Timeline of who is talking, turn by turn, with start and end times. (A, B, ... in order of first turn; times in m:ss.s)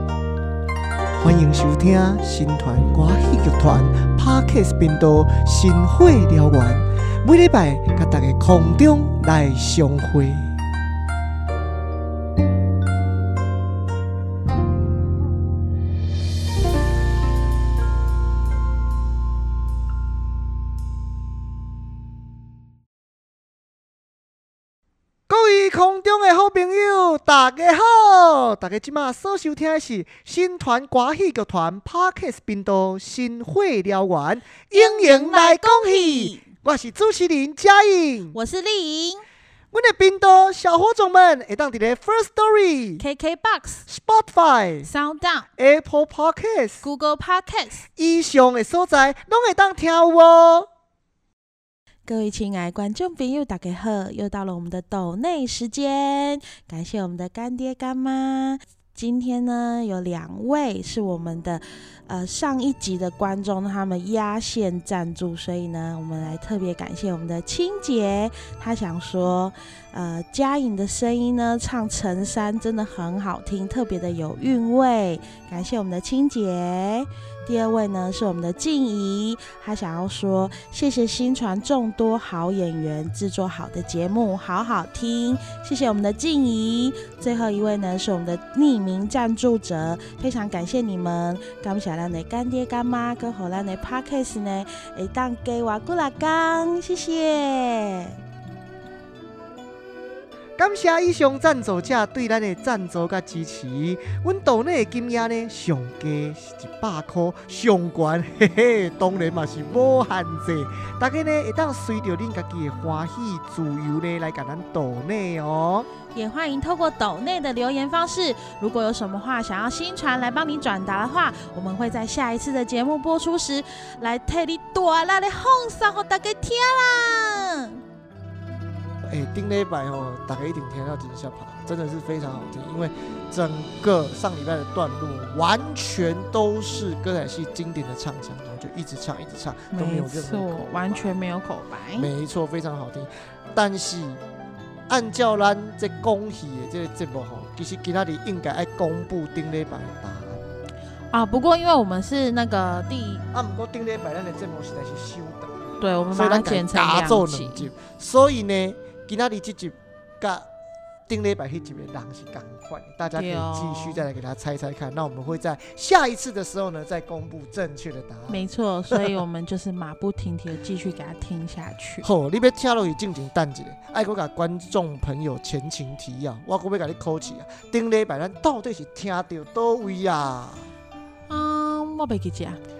0:01.2-0:10.5 A
0:25.3-0:38.4 A
0:34.7-0:36.4 B
0:38.3-0:39.2 B
0:39.7-0:43.0 A
0:43.0-0:43.8 B
0:43.9-0:44.9 A
0:44.8-0:45.5 B
0:45.6-0:46.8 A
0:46.8-0:47.9 B
0:48.0-0:50.7 A
0:52.1-1:38.2 B
1:40.6-1:55.9 A
1:56.1-2:07.8 B
2:09.0-2:21.1 A
2:19.7-2:22.1 B
2:21.9-2:24.2 A
2:24.9-2:30.4 A
2:31.1-2:33.2 B
2:33.3-2:40.5 A
2:35.8-2:37.7 B
2:41.1-2:49.1 A
2:43.1-2:44.0 B
2:48.3-2:52.1 B
2:52.0-3:00.7 A
3:01.3-3:02.6 B